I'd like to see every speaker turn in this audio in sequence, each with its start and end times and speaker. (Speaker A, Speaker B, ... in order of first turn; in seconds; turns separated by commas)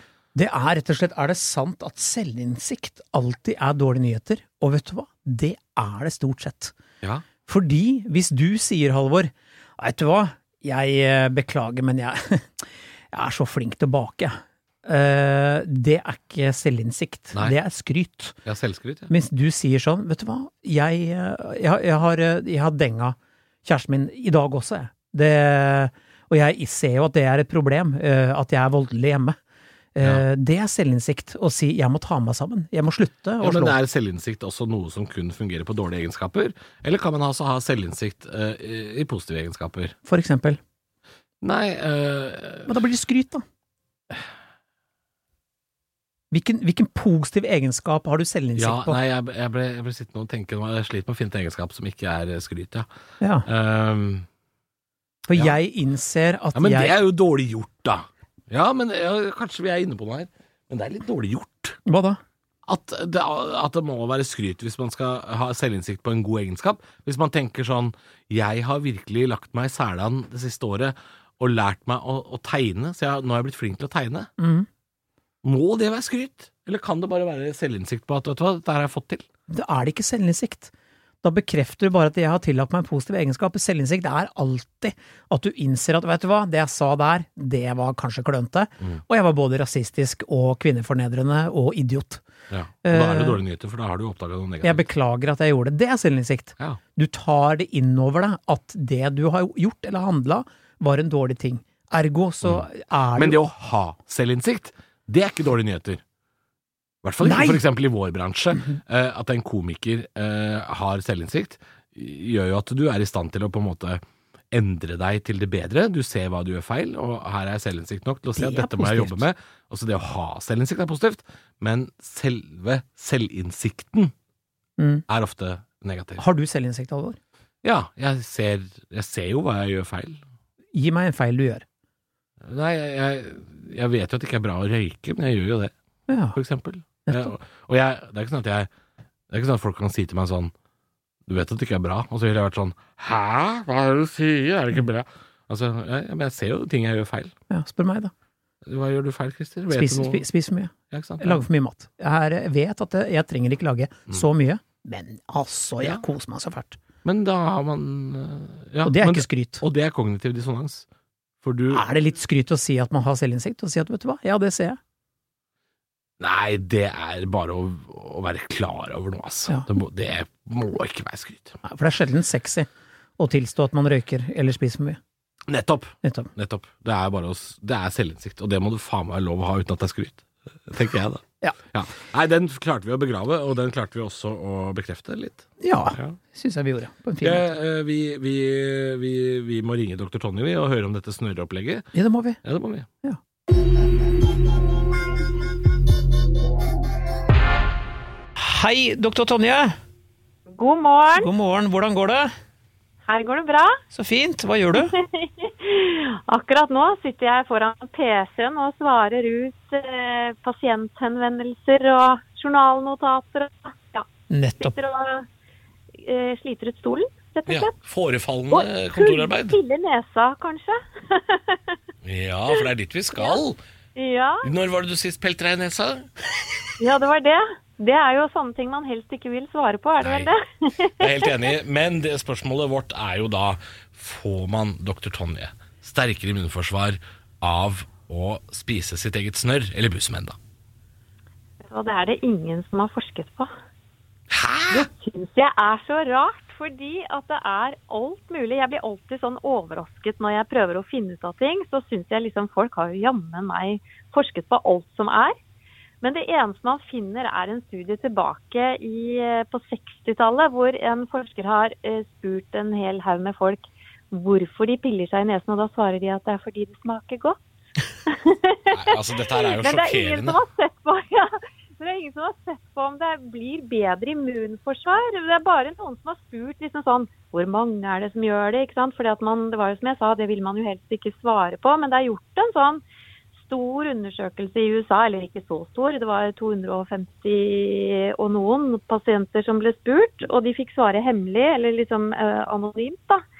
Speaker A: 0.3-6.7, Speaker A: 7.5-18.4, Speaker B: 18.4-19.1, Speaker A: 19.1-29.4, Speaker A: 29.9-33.8, Speaker B: 33.4-39.9, Speaker A: 40.0-40.6, Speaker B: 41.4-42.7, Speaker A: 42.7-43.4, Speaker A: 46.3-49.0, Speaker B: 48.6-52.9, Speaker A: 53.2-53.5, Speaker B: 53.5-54.2, Speaker A: 55.3-57.0, Speaker B: 56.5-61.8, Speaker A: 61.9-62.2, Speaker B: 62.6-74.3, Speaker A: 74.4-74.7, Speaker B: 75.4-79.2, Speaker A: 79.5-80.7, Speaker A: 81.2-92.2, Speaker B: 92.5-94.8, Speaker A: 92.8-93.4, Speaker A: 94.6-103.4, Speaker B: 102.4-106.0, Speaker B: 107.0-124.1, Speaker A: 107.2-107.6, Speaker A: 118.3-119.2, Speaker A: 124.8-125.0, Speaker B: 125.1-126.2, Speaker A: 126.2-127.2, Speaker B: 127.6-130.2, Speaker A: 130.7-131.6, Speaker B: 132.4-135.7, Speaker A: 136.1-136.4, Speaker B: 136.3-138.7, Speaker A: 137.1-137.3, Speaker B: 139.3-140.5, Speaker B: 141.2-147.3, Speaker A: 147.5-148.1, Speaker B: 148.6-150.2, Speaker A: 149.7-156.8, Speaker B: 150.9-151.4, Speaker B: 157.0-160.8, Speaker A: 158.8-159.6, Speaker B: 161.4-161.8, Speaker A: 161.7-164.8, Speaker B: 166.2-171.6, Speaker A: 171.6-175.0, Speaker B: 175.5-186.2, Speaker A: 176.0-176.3, Speaker A: 185.6-187.5, Speaker B: 187.2-191.9, Speaker A: 191.9-192.4, Speaker B: 192.4-192.9, Speaker A: 198.3-199.8, Speaker C: 200.5-201.3, Speaker A: 201.1-202.3, Speaker C: 203.1-203.8, Speaker A: 203.9-204.9, Speaker C: 204.8-214.1, Speaker A: 214.3-214.7, Speaker C: 214.6-215.3, Speaker C: 216.0-217.7, Speaker B: 217.5-219.6, Speaker C: 218.5-221.8, Speaker B: 222.0-223.6, Speaker C: 223.9-224.5, Speaker B: 224.4-226.1, Speaker C: 226.8-231.3, Speaker B: 230.0-230.3, Speaker B: 231.0-240.4, Speaker C: 241.6-243.5, Speaker B: 244.3-244.9, Speaker C: 244.7-255.3, Speaker C: 256.0-267.4, Speaker C: 268.1-282.8, Speaker B: 268.7-270.4, Speaker C: 283.3-293.2